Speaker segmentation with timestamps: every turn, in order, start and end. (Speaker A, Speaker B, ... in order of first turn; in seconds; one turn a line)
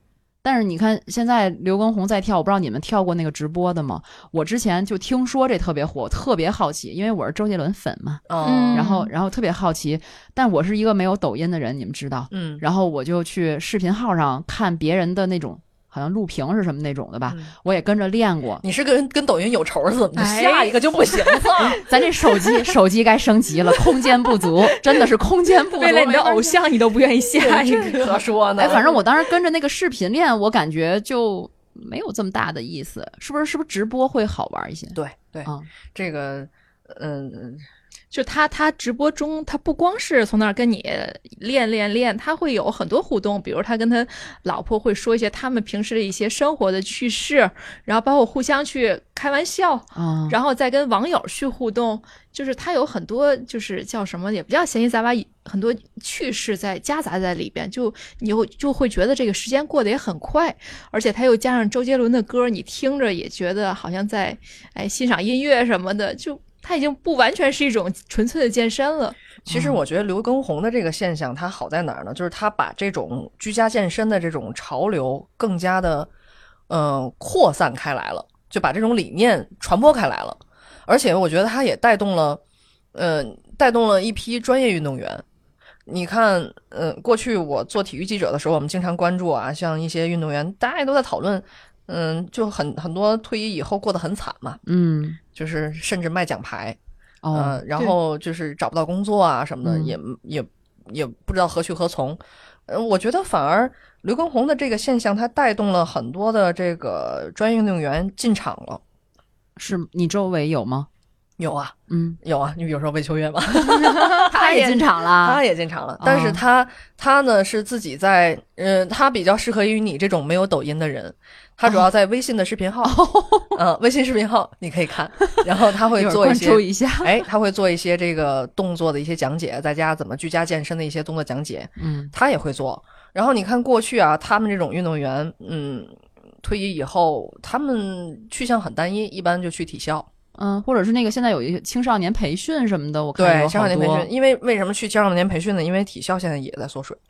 Speaker A: 0.4-18.6
Speaker B: 8.3-8.9
Speaker C: 8.4-9.1
Speaker B: 12.3-12.6
Speaker B: 18.6-21.8
Speaker C: 20.1-21.6
Speaker A: 21.6-26.6
Speaker C: 25.7-28.2
Speaker B: 27.4-28.9
Speaker A: 28.6-35.6
Speaker B: 34.9-37.6
Speaker C: 38.1-69.1
Speaker A: 49.9-50.4
Speaker A: 69.5-69.8
Speaker B: 69.5-76.1
Speaker B: 76.7-82.4
Speaker B: 82.9-85.2
Speaker B: 85.9-94.6
Speaker A: 94.7-95.2
Speaker B: 95.3-96.8
Speaker A: 97.2-97.6
Speaker B: 97.3-108.8
Speaker A: 99.6-100.0
Speaker A: 109.6-110.9
Speaker B: 111.4-123.0
Speaker A: 111.9-112.2
Speaker A: 113.5-115.4
Speaker A: 116.0-116.4
Speaker A: 122.8-123.6
Speaker B: 123.5-140.1
Speaker A: 126.0-127.2
Speaker A: 131.8-132.1
Speaker A: 140.4-144.1
Speaker B: 143.2-147.0